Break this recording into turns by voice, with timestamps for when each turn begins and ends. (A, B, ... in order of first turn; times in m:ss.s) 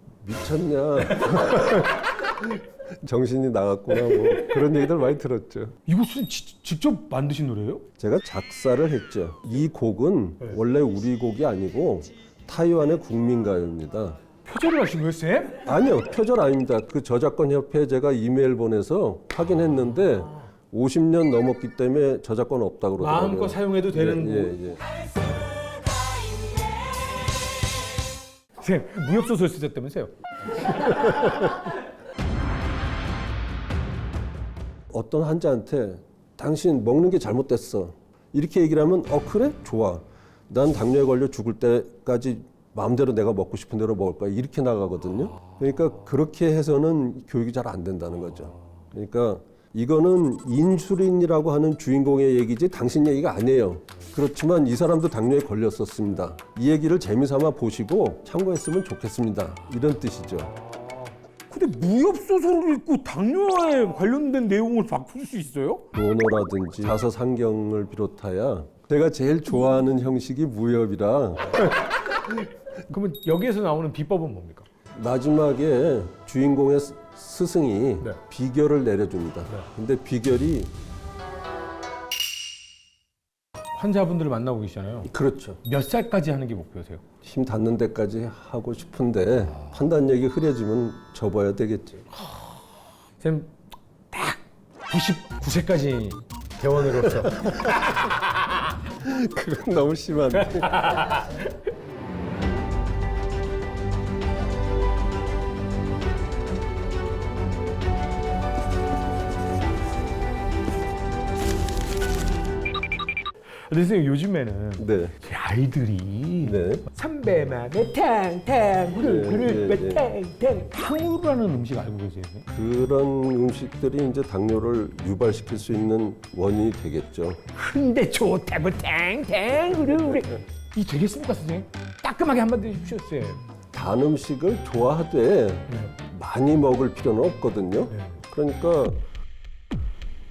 0:00.2-0:05.8 A
0:05.8-0:07.8 B
0:08.0-0:14.2 A
0:14.4-0:15.6 B
0:15.6-0:24.8 A
0:23.0-0:24.6 B
0:28.6-0:31.2 B
0:34.9-1:00.5 A
1:01.5-1:05.8 B
1:05.9-1:11.7 A
1:12.9-1:14.7 B
1:14.9-1:20.7 A
1:23.7-1:25.1 B
1:25.1-1:25.6 A
1:25.6-1:27.0 B
1:27.2-1:32.1 A
1:33.2-1:33.5 B
1:34.1-1:38.0 B
1:37.4-1:37.9 A
1:39.0-1:41.0 A
1:40.5-1:41.4 B
1:53.7-2:02.5 B
1:54.8-1:55.2 A
1:56.4-1:56.8 A
1:59.0-2:00.1 A
2:02.5-2:07.4 A
2:07.5-2:13.4 B
2:13.7-2:19.0 A